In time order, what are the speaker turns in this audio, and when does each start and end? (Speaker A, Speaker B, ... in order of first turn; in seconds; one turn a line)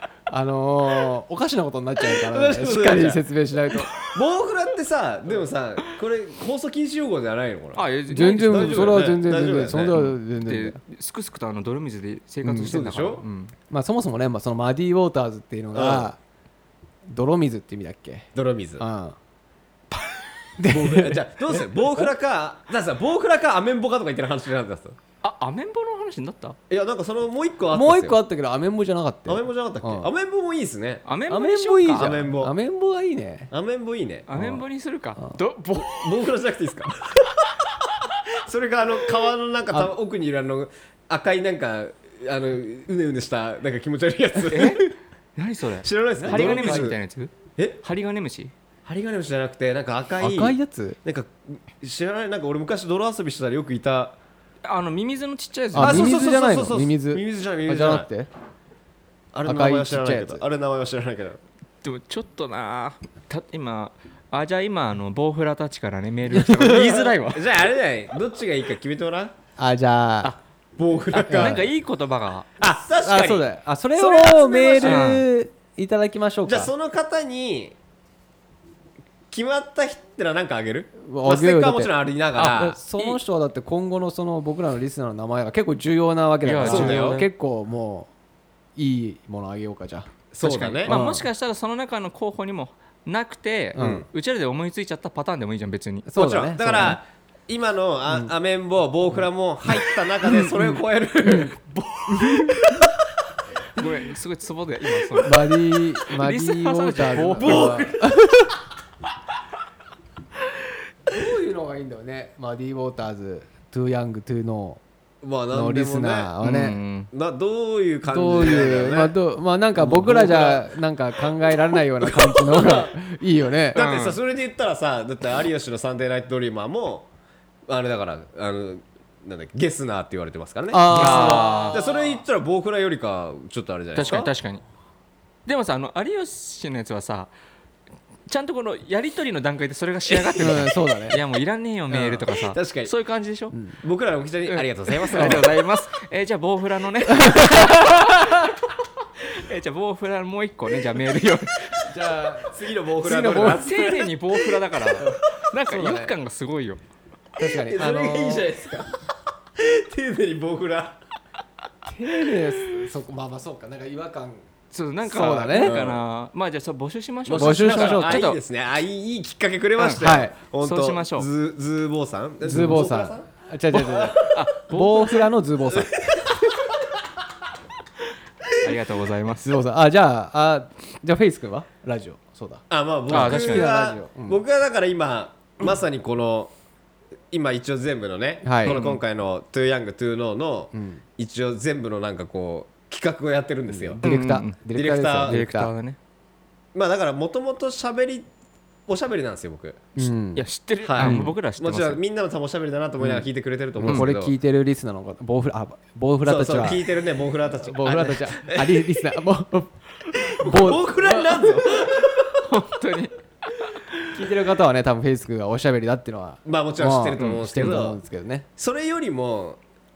Speaker A: 0.3-3.9
Speaker B: 2.3-3.2
Speaker B: 4.0-7.8
Speaker C: 7.8-9.2
Speaker A: 8.1-10.8
Speaker B: 8.4-10.0
Speaker C: 9.9-13.5
Speaker A: 12.4-12.7
Speaker B: 12.6-13.2
Speaker A: 13.7-16.2
Speaker B: 15.7-16.1
Speaker A: 17.1-19.2
Speaker B: 18.4-18.8
Speaker A: 20.6-22.1
Speaker B: 20.7-25.0
Speaker C: 25.2-26.6
Speaker B: 26.7-28.2
Speaker A: 27.7-30.1
Speaker B: 29.3-31.0
Speaker C: 31.1-32.2
Speaker A: 31.3-33.5
Speaker B: 31.9-32.5
Speaker B: 33.5-34.3
Speaker C: 34.3-36.3
Speaker A: 34.4-34.6
Speaker B: 35.7-37.4
Speaker B: 38.3-44.9
Speaker C: 44.5-48.5
Speaker B: 45.8-47.0
Speaker A: 46.2-46.9
Speaker B: 48.9-54.2
Speaker A: 50.2-51.0
Speaker C: 54.6-56.2
Speaker A: 55.7-58.3
Speaker B: 55.8-58.1
Speaker B: 59.3-61.4
Speaker A: 59.5-60.4
Speaker C: 61.8-67.4
Speaker A: 66.4-66.9
Speaker B: 66.7-69.3
Speaker A: 69.6-70.3
Speaker B: 70.8-71.7
Speaker C: 71.1-72.5
Speaker A: 71.1-71.6
Speaker B: 72.6-75.1
Speaker A: 73.0-76.7
Speaker C: 74.8-75.3
Speaker B: 76.5-77.8
Speaker B: 79.3-82.8
Speaker A: 81.0-88.1
Speaker C: 82.4-83.2
Speaker C: 86.4-87.3
Speaker B: 86.6-87.2
Speaker A: 88.8-90.1
Speaker B: 90.3-91.0
Speaker C: 90.4-96.1
Speaker A: 90.9-91.2
Speaker A: 93.8-94.0
Speaker B: 93.8-94.1
Speaker A: 96.1-97.0
Speaker B: 96.2-102.9
Speaker A: 100.3-100.7
Speaker A: 102.1-102.5
Speaker C: 103.8-107.9
Speaker A: 105.2-108.5
Speaker B: 107.4-108.0
Speaker A: 111.1-114.8
Speaker B: 115.2-116.3
Speaker A: 115.5-116.8
Speaker C: 116.4-117.1
Speaker B: 117.1-119.1
Speaker A: 118.1-123.8
Speaker B: 119.8-120.7
Speaker B: 121.5-122.9
Speaker C: 123.7-124.2
Speaker B: 123.7-127.1
Speaker B: 127.7-134.3
Speaker A: 130.7-131.8
Speaker C: 130.9-132.2
Speaker C: 133.9-134.6
Speaker C: 135.5-137.3
Speaker C: 138.3-143.6
Speaker A: 140.4-141.2
Speaker A: 141.9-142.2
Speaker B: 142.4-142.9
Speaker B: 143.8-145.5
Speaker C: 144.5-151.8
Speaker A: 145.2-145.4
Speaker A: 147.1-148.5
Speaker A: 151.9-153.7
Speaker B: 152.5-154.2
Speaker C: 153.3-156.8
Speaker A: 155.0-156.1
Speaker A: 157.4-158.5
Speaker B: 157.5-158.9
Speaker B: 159.6-161.0
Speaker A: 161.9-164.4
Speaker C: 164.7-168.4
Speaker A: 165.1-165.8
Speaker B: 165.6-166.0
Speaker B: 167.3-174.4
Speaker A: 167.3-168.2
Speaker C: 169.8-171.3
Speaker A: 170.0-170.3
Speaker A: 172.4-176.3
Speaker C: 174.1-175.3
Speaker C: 178.6-179.6
Speaker A: 179.4-184.4
Speaker B: 182.7-186.5
Speaker C: 183.1-183.7
Speaker B: 187.3-194.0
Speaker A: 188.4-188.8
Speaker C: 188.7-189.0
Speaker A: 190.7-191.0
Speaker A: 193.7-195.7
Speaker C: 194.0-194.6
Speaker B: 194.8-195.4
Speaker C: 195.3-196.0
Speaker B: 196.7-198.3
Speaker B: 198.9-199.8
Speaker A: 200.0-200.4
Speaker C: 200.3-202.0
Speaker B: 200.8-204.3
Speaker A: 201.0-201.3
Speaker A: 203.8-206.8
Speaker B: 206.2-208.9
Speaker A: 207.7-211.6
Speaker B: 210.2-212.5
Speaker C: 212.4-213.9
Speaker A: 214.1-218.5
Speaker B: 216.4-218.0
Speaker C: 217.2-217.8
Speaker B: 218.6-219.6